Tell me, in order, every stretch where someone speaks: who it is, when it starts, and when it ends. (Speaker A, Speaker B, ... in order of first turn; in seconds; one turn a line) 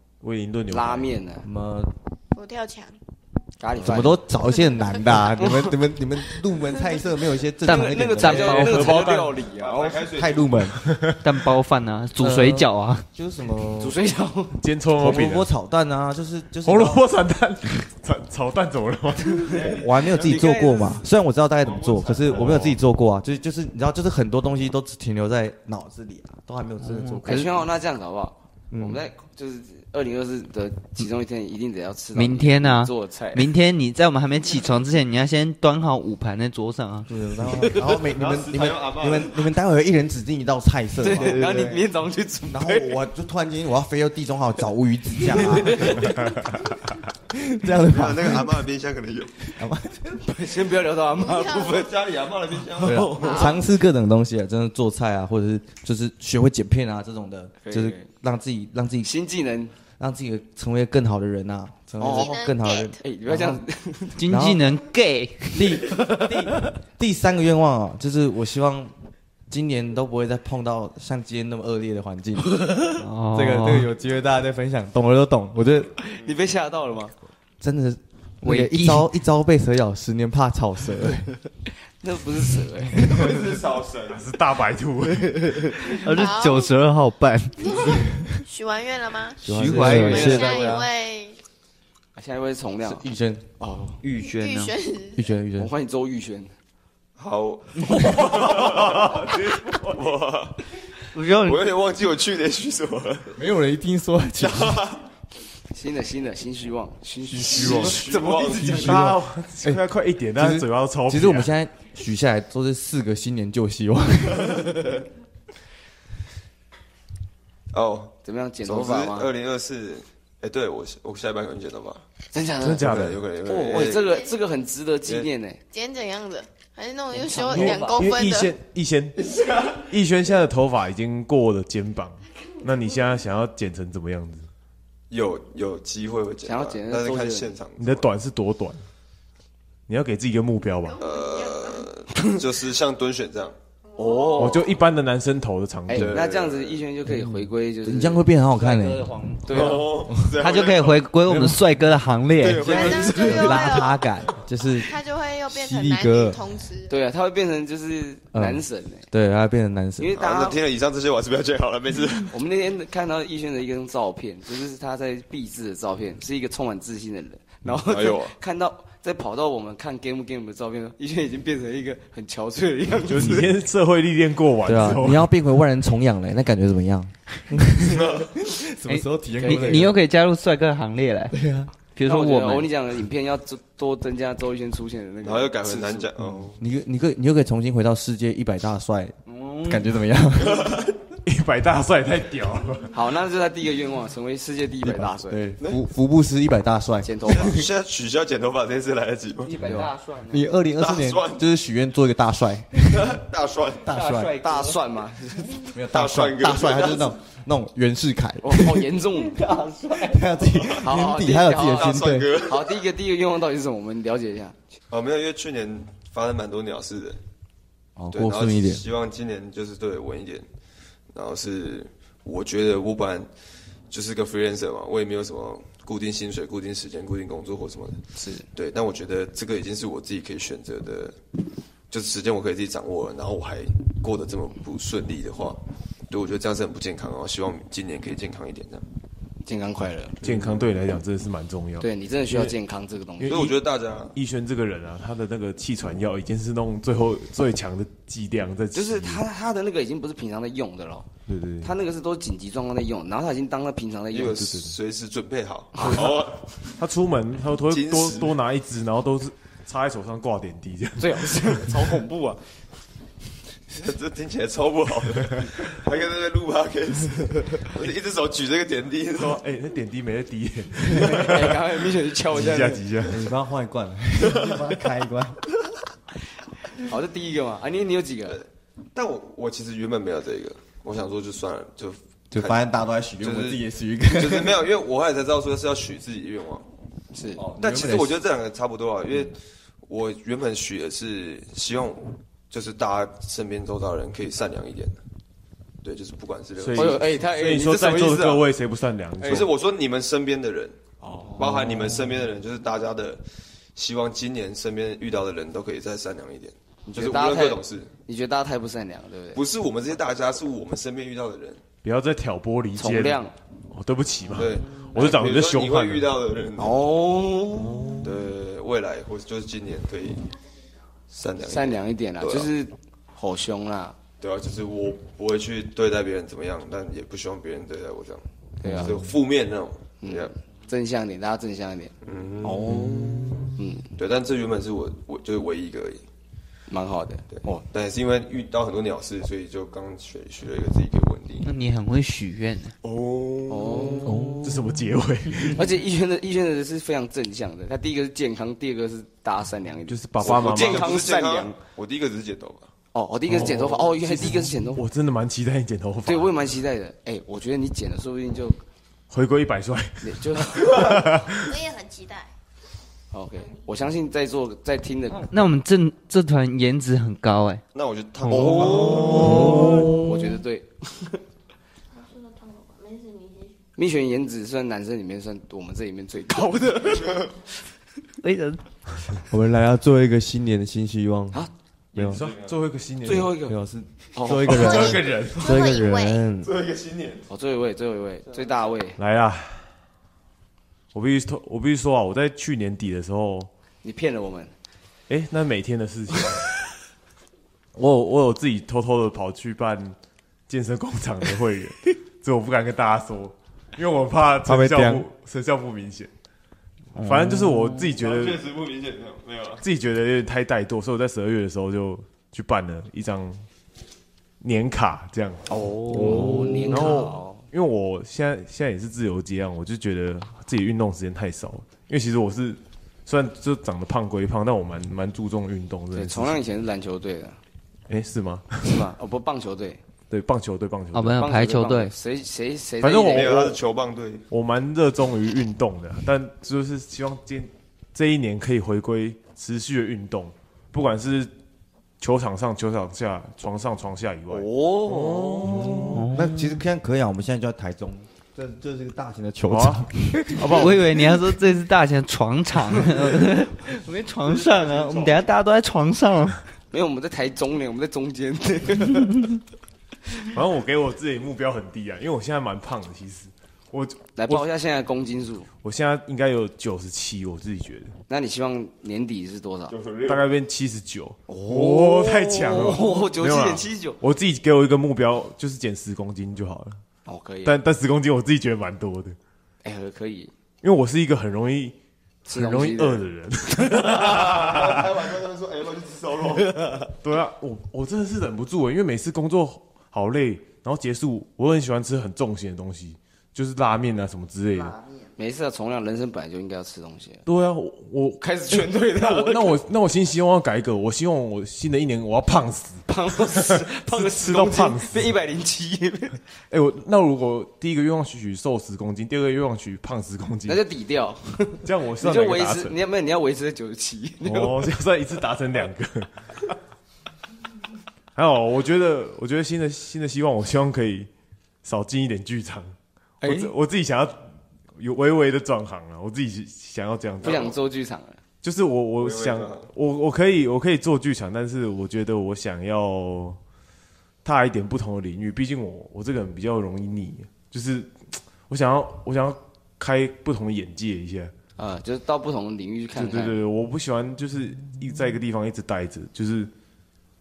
Speaker A: 0.2-1.1
Speaker B: 0.7-1.4
Speaker C: 1.4-1.9
Speaker D: 2.3-3.0
Speaker B: 3.6-4.3
Speaker C: 3.8-8.7
Speaker B: 5.3-5.7
Speaker E: 7.7-9.0
Speaker B: 7.7-10.1
Speaker A: 8.6-9.3
Speaker F: 9.5-10.8
Speaker C: 10.1-10.8
Speaker A: 10.8-11.2
Speaker E: 11.2-13.0
Speaker C: 12.2-14.0
Speaker B: 13.8-14.6
Speaker A: 14.6-15.5
Speaker C: 15.0-17.0
Speaker A: 16.6-19.5
Speaker B: 19.3-21.0
Speaker C: 19.5-27.6
Speaker A: 22.3-22.8
Speaker E: 26.8-27.5
Speaker B: 27.2-33.5
Speaker C: 28.7-29.0
Speaker E: 32.1-37.1
Speaker C: 37.1-41.9
Speaker F: 37.9-39.4
Speaker B: 41.0-43.0
Speaker C: 42.5-46.3
Speaker B: 45.4-46.2
Speaker A: 46.2-46.5
Speaker C: 47.3-48.6
Speaker F: 47.8-49.5
Speaker C: 49.5-50.2
Speaker B: 50.1-52.1
Speaker D: 51.1-51.9
Speaker F: 51.6-53.1
Speaker B: 52.8-53.5
Speaker C: 52.8-59.1
Speaker D: 53.1-53.6
Speaker B: 57.6-58.1
Speaker B: 59.0-59.7
Speaker C: 60.0-63.6
Speaker B: 62.0-62.4
Speaker D: 62.0-63.0
Speaker B: 63.0-64.2
Speaker E: 64.2-65.8
Speaker C: 64.3-64.8
Speaker C: 65.5-68.9
Speaker B: 65.9-66.3
Speaker C: 69.5-72.7
Speaker E: 73.0-73.9
Speaker C: 73.3-75.9
Speaker B: 76.0-77.1
Speaker C: 77.6-81.3
Speaker E: 78.4-79.1
Speaker B: 82.0-83.4
Speaker F: 83.1-84.2
Speaker A: 84.1-85.8
Speaker E: 85.8-88.0
Speaker D: 86.1-86.7
Speaker D: 87.6-91.4
Speaker C: 89.4-90.8
Speaker B: 89.5-90.8
Speaker E: 89.5-90.8
Speaker B: 92.2-93.0
Speaker C: 92.8-93.4
Speaker B: 93.6-94.0
Speaker E: 94.0-94.7
Speaker D: 94.1-95.3
Speaker C: 95.2-95.7
Speaker B: 95.5-96.5
Speaker F: 97.2-100.6
Speaker A: 98.3-100.1
Speaker E: 101.1-101.6
Speaker F: 101.3-103.4
Speaker C: 103.3-104.9
Speaker F: 104.4-105.0
Speaker B: 105.7-109.0
Speaker C: 107.4-109.8
Speaker A: 107.4-108.0
Speaker F: 107.5-109.0
Speaker A: 108.6-111.5
Speaker C: 110.3-115.0
Speaker F: 117.7-122.0
Speaker B: 118.2-119.3
Speaker B: 122.3-125.6
Speaker A: 122.6-123.2
Speaker F: 122.8-124.2
Speaker D: 123.9-124.3
Speaker D: 125.7-128.5
Speaker A: 127.5-134.5
Speaker E: 127.5-127.8
Speaker F: 135.1-138.1
Speaker B: 136.4-137.5
Speaker A: 137.8-138.8
Speaker A: 139.9-141.0
Speaker D: 140.9-141.9
Speaker F: 141.0-143.6
Speaker D: 143.9-144.5
Speaker B: 144.0-144.6
Speaker A: 144.4-146.2
Speaker B: 145.9-148.3
Speaker F: 145.9-146.8
Speaker C: 147.1-149.2
Speaker E: 148.5-152.7
Speaker B: 149.4-149.9
Speaker F: 149.5-151.1
Speaker C: 150.0-150.3
Speaker C: 151.3-151.5
Speaker F: 152.4-153.2
Speaker C: 152.4-154.9
Speaker B: 152.4-153.7
Speaker D: 152.6-154.0
Speaker D: 154.7-156.9
Speaker C: 155.5-156.4
Speaker B: 156.9-159.1
Speaker C: 158.3-160.2
Speaker B: 160.0-160.6
Speaker F: 160.2-162.3
Speaker B: 162.3-173.5
Speaker F: 167.8-168.3
Speaker A: 173.1-175.3
Speaker C: 174.6-180.0
Speaker F: 177.8-178.3
Speaker E: 178.9-181.4
Speaker B: 179.4-179.9
Speaker C: 181.3-181.7
Speaker E: 181.9-182.7
Speaker B: 182.0-186.1
Speaker F: 185.2-186.6
Speaker C: 186.5-190.8
Speaker E: 189.3-189.8
Speaker A: 191.2-192.9
Speaker B: 192.9-195.4
Speaker C: 194.8-197.7
Speaker B: 197.0-197.6
Speaker F: 197.2-199.7
Speaker E: 199.4-200.5
Speaker C: 199.6-203.2
Speaker F: 200.8-201.4
Speaker F: 202.8-203.9
Speaker C: 203.8-204.4
Speaker E: 203.9-204.8
Speaker B: 204.4-205.7
Speaker C: 205.6-208.9
Speaker F: 205.8-207.1
Speaker B: 208.4-209.4
Speaker E: 209.3-210.2
Speaker C: 209.9-212.4
Speaker B: 210.8-214.6
Speaker F: 211.6-212.9
Speaker F: 214.9-217.2
Speaker C: 218.0-218.8
Speaker F: 218.1-220.5
Speaker F: 221.1-223.3
Speaker F: 223.9-231.2
Speaker B: 228.2-228.5
Speaker F: 231.9-238.8
Speaker B: 239.4-240.2
Speaker A: 240.2-242.5
Speaker B: 241.8-243.5
Speaker A: 243.2-243.6
Speaker F: 243.2-244.2
Speaker A: 244.1-249.2
Speaker B: 248.7-251.1
Speaker A: 251.3-251.7
Speaker B: 251.6-254.4
Speaker F: 254.1-256.7
Speaker A: 254.2-254.7
Speaker B: 255.8-256.1
Speaker A: 255.8-256.2
Speaker A: 256.8-261.8
Speaker F: 257.7-258.3
Speaker B: 261.0-262.4
Speaker F: 263.7-269.4
Speaker A: 269.2-271.6
Speaker B: 270.9-272.8
Speaker A: 272.3-273.2
Speaker C: 273.0-275.4
Speaker F: 274.3-274.5
Speaker B: 276.8-278.4
Speaker F: 278.9-282.6
Speaker C: 282.3-284.7
Speaker F: 283.2-286.7
Speaker B: 287.1-287.4
Speaker C: 287.4-288.2
Speaker F: 287.6-295.0
Speaker F: 295.8-297.1
Speaker A: 296.6-299.5
Speaker B: 296.7-298.4
Speaker F: 297.9-298.4
Speaker F: 299.2-300.8
Speaker B: 301.0-301.5
Speaker F: 301.4-303.2
Speaker F: 303.7-307.9
Speaker B: 306.9-309.4
Speaker F: 309.3-311.6
Speaker A: 311.8-316.1
Speaker B: 312.8-313.3
Speaker F: 314.3-316.8
Speaker B: 316.6-317.9
Speaker F: 318.0-320.3
Speaker F: 321.1-322.5
Speaker B: 321.4-323.9
Speaker F: 324.2-330.3
Speaker B: 328.6-329.0
Speaker B: 330.0-331.9
Speaker F: 332.0-332.8
Speaker C: 332.4-333.5
Speaker B: 333.6-333.9
Speaker F: 333.9-336.0
Speaker B: 336.7-337.6
Speaker F: 337.3-341.5
Speaker E: 341.4-342.7
Speaker F: 342.8-344.0
Speaker B: 343.5-344.3
Speaker C: 344.1-344.6
Speaker A: 344.4-345.6
Speaker B: 345.5-351.6
Speaker A: 349.9-351.1
Speaker F: 350.2-352.7
Speaker B: 352.9-354.8
Speaker A: 353.3-356.5
Speaker B: 356.0-358.6
Speaker A: 359.1-361.6
Speaker B: 360.0-361.1
Speaker D: 361.3-362.3
Speaker B: 363.1-365.3
Speaker E: 365.2-367.6
Speaker F: 367.7-369.9
Speaker C: 368.3-370.4
Speaker B: 368.3-371.2
Speaker A: 368.3-369.9
Speaker D: 372.9-373.2
Speaker B: 373.8-377.4
Speaker E: 378.2-378.6
Speaker C: 379.3-381.4
Speaker F: 381.9-382.5
Speaker A: 381.9-383.3
Speaker B: 383.0-383.6
Speaker C: 383.4-386.6
Speaker B: 384.1-385.2
Speaker A: 384.4-385.6
Speaker F: 386.4-387.2
Speaker B: 387.3-389.0
Speaker A: 389.0-389.7
Speaker A: 390.9-393.5
Speaker B: 393.8-394.5
Speaker A: 395.1-396.5
Speaker A: 397.7-399.9
Speaker A: 400.5-406.1
Speaker C: 404.4-405.1
Speaker E: 406.9-407.9
Speaker A: 407.0-408.4
Speaker F: 407.9-409.6
Speaker A: 409.6-413.4
Speaker A: 414.4-415.4
Speaker B: 415.5-417.4
Speaker C: 415.9-416.7
Speaker A: 416.1-426.4
Speaker B: 425.9-427.4
Speaker A: 427.9-428.9
Speaker B: 428.6-429.8
Speaker A: 430.1-431.2
Speaker E: 430.9-431.9
Speaker B: 431.1-433.4
Speaker A: 432.8-433.6
Speaker F: 433.1-434.2
Speaker A: 434.3-441.3
Speaker A: 442.0-446.1
Speaker B: 444.3-445.8
Speaker E: 445.9-446.5
Speaker C: 446.1-450.7
Speaker A: 449.5-450.9
Speaker E: 450.4-456.4
Speaker B: 456.7-459.2
Speaker A: 460.3-464.4
Speaker B: 464.1-465.5
Speaker A: 465.6-467.9
Speaker B: 468.1-469.7
Speaker F: 469.7-470.3
Speaker A: 470.1-476.8
Speaker B: 471.3-474.0
Speaker B: 477.1-477.6
Speaker A: 477.4-479.1
Speaker B: 479.6-480.3
Speaker A: 480.6-481.8
Speaker B: 482.2-483.0
Speaker A: 482.3-485.0
Speaker F: 483.9-486.5
Speaker A: 487.0-494.8
Speaker B: 495.2-497.2
Speaker A: 497.2-505.1
Speaker B: 498.2-499.6
Speaker B: 502.9-506.2
Speaker A: 506.5-510.6
Speaker B: 510.5-514.7
Speaker A: 511.6-512.8
Speaker A: 514.2-516.5
Speaker A: 518.1-521.1
Speaker A: 521.6-527.5
Speaker B: 523.2-523.5
Speaker B: 527.2-528.2
Speaker F: 527.2-527.5
Speaker A: 528.4-533.4
Speaker F: 529.0-529.7
Speaker A: 534.2-541.3
Speaker B: 541.6-543.4
Speaker A: 543.0-546.5